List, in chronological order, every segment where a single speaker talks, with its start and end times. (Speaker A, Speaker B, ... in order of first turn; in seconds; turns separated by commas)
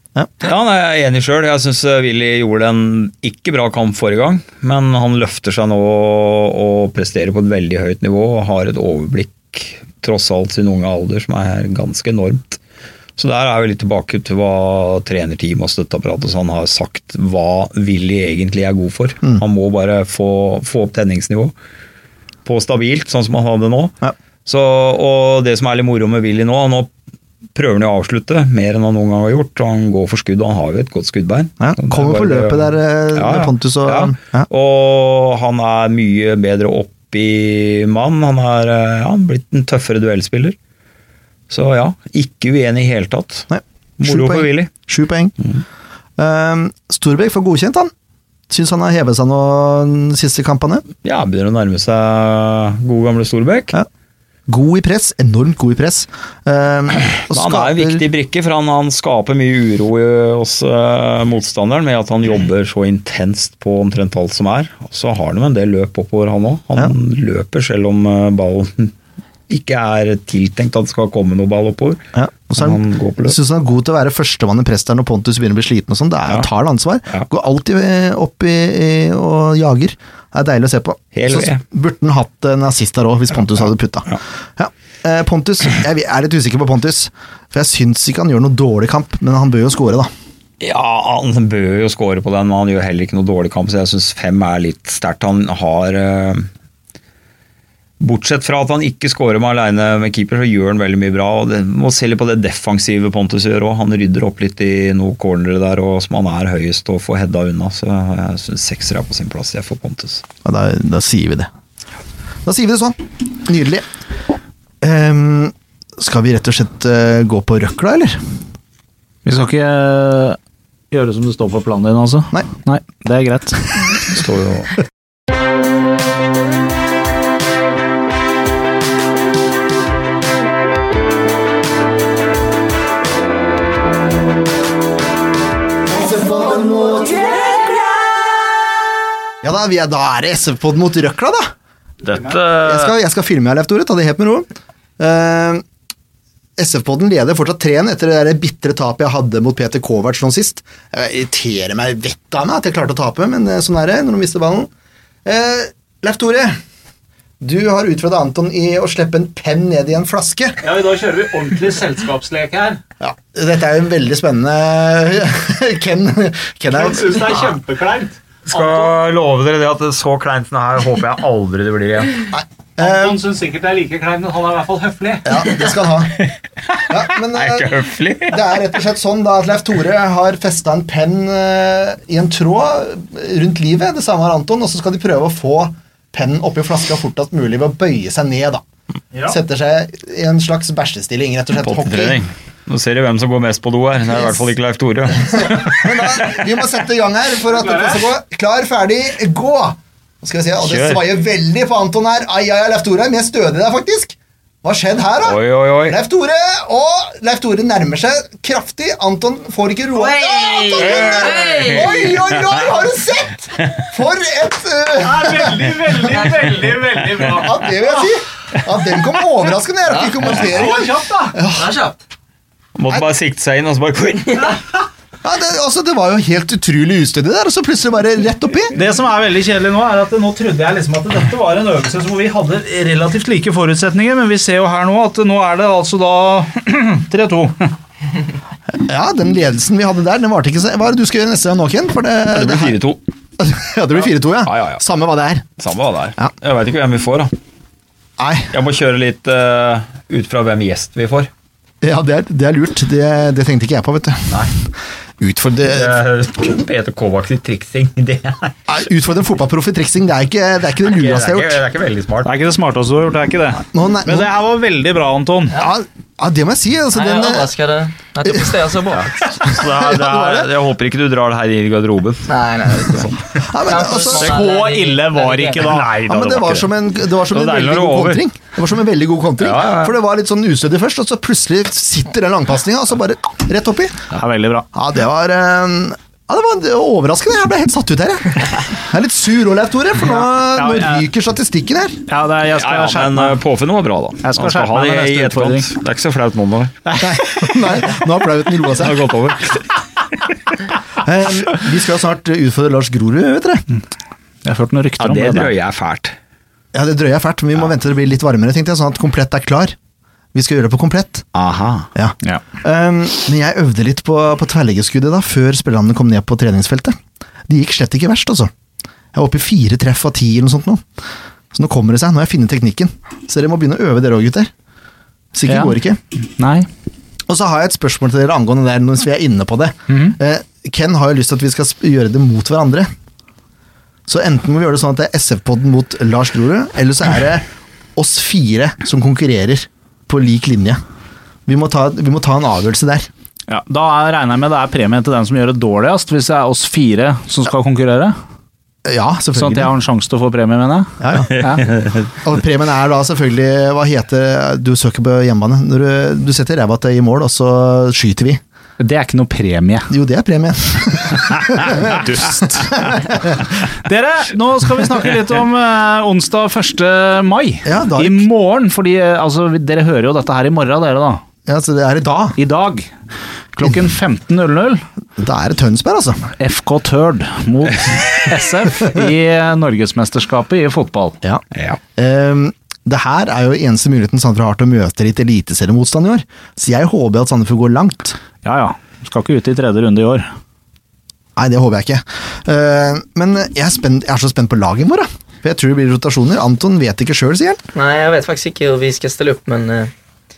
Speaker A: 0.4-12.6, Speaker A: 13.2-21.5, Speaker A: 22.4-23.9, Speaker A: 24.4-26.9, Speaker A: 27.5-40.5, Speaker B: 31.6-34.5, Speaker A: 41.5-43.5, Speaker B: 43.5-45.3, Speaker A: 44.0-44.7, Speaker B: 46.2-47.9, Speaker B: 48.5-50.8, Speaker A: 51.0-53.7, Speaker B: 54.5-58.0, Speaker A: 57.3-68.9, Speaker A: 69.5-73.4, Speaker B: 72.1-90.1, Speaker A: 81.1-81.6, Speaker A: 90.6-96.5, Speaker A: 98.0-110.2, Speaker B: 110.4-111.5, Speaker B: 112.4-113.8, Speaker B: 114.8-118.2, Speaker C: 119.2-120.4, Speaker C: 120.9-123.7, Speaker A: 124.1-124.7, Speaker B: 136.0-137.3, Speaker B: 139.4-141.5, Speaker A: 142.0-142.9, Speaker B: 142.6-144.5, Speaker B: 145.0-145.6, Speaker B: 146.6-154.7, Speaker B: 155.2-156.6, Speaker B: 157.4-160.6, Speaker C: 160.6-162.8, Speaker B: 163.0-167.4, Speaker C: 166.7-168.9, Speaker A: 168.5-172.3, Speaker B: 172.3-173.2, Speaker C: 172.8-175.4, Speaker B: 175.2-176.3, Speaker A: 176.2-178.4, Speaker B: 176.9-177.7, Speaker B: 178.3-188.6, Speaker B: 189.2-192.2, Speaker A: 191.6-196.3, Speaker B: 195.3-216.3, Speaker C: 197.6-198.0, Speaker A: 200.6-201.0, Speaker A: 205.2-206.0, Speaker A: 210.7-212.0, Speaker C: 215.0-217.8, Speaker B: 217.2-221.9, Speaker C: 220.3-221.3, Speaker A: 222.8-224.6, Speaker B: 225.2-228.8, Speaker C: 228.7-237.7, Speaker B: 238.7-242.8, Speaker A: 242.3-243.0, Speaker B: 243.4-245.5, Speaker A: 244.4-244.8, Speaker A: 245.6-247.3, Speaker B: 248.2-248.5, Speaker A: 248.5-251.3, Speaker B: 251.8-254.4, Speaker B: 255.2-256.0, Speaker A: 255.6-258.6, Speaker B: 258.7-261.6, Speaker A: 260.8-262.3, Speaker C: 262.2-265.6, Speaker B: 263.7-264.3, Speaker B: 265.6-267.5, Speaker D: 266.9-269.1, Speaker A: 268.9-272.3, Speaker B: 269.4-270.5, Speaker D: 272.3-275.7, Speaker A: 272.9-273.1, Speaker B: 273.4-274.3, Speaker C: 274.1-276.0, Speaker A: 275.6-276.7, Speaker B: 276.1-284.1, Speaker A: 277.3-278.2, Speaker A: 279.4-279.9, Speaker C: 284.2-284.6, Speaker B: 284.7-292.0, Speaker C: 290.1-291.0, Speaker C: 292.1-293.4, Speaker A: 292.5-296.8, Speaker C: 294.2-295.7, Speaker C: 296.9-297.5, Speaker B: 297.0-299.0, Speaker A: 298.7-300.3, Speaker B: 301.0-303.6, Speaker C: 304.4-305.5, Speaker A: 305.0-306.1, Speaker B: 306.7-309.8, Speaker B: 310.3-311.2, Speaker A: 311.3-311.9, Speaker B: 311.9-318.5, Speaker B: 319.1-320.8, Speaker B: 321.5-324.5, Speaker B: 325.3-326.0, Speaker C: 325.5-325.8, Speaker C: 326.3-326.7, Speaker B: 327.3-332.9, Speaker C: 329.9-330.1, Speaker B: 334.1-340.8, Speaker B: 341.5-343.1, Speaker C: 343.5-348.1, Speaker B: 348.8-349.7, Speaker C: 349.3-351.7, Speaker B: 351.0-351.3, Speaker B: 352.2-358.4, Speaker C: 358.8-359.9, Speaker B: 359.9-363.4, Speaker C: 361.7-363.0, Speaker C: 363.8-371.2, Speaker B: 367.6-368.2, Speaker B: 371.5-372.4, Speaker C: 372.4-372.9, Speaker C: 373.5-374.8, Speaker B: 375.2-376.3, Speaker C: 376.4-381.2, Speaker B: 381.9-388.2, Speaker C: 388.4-390.3, Speaker B: 391.4-397.6, Speaker D: 397.7-399.9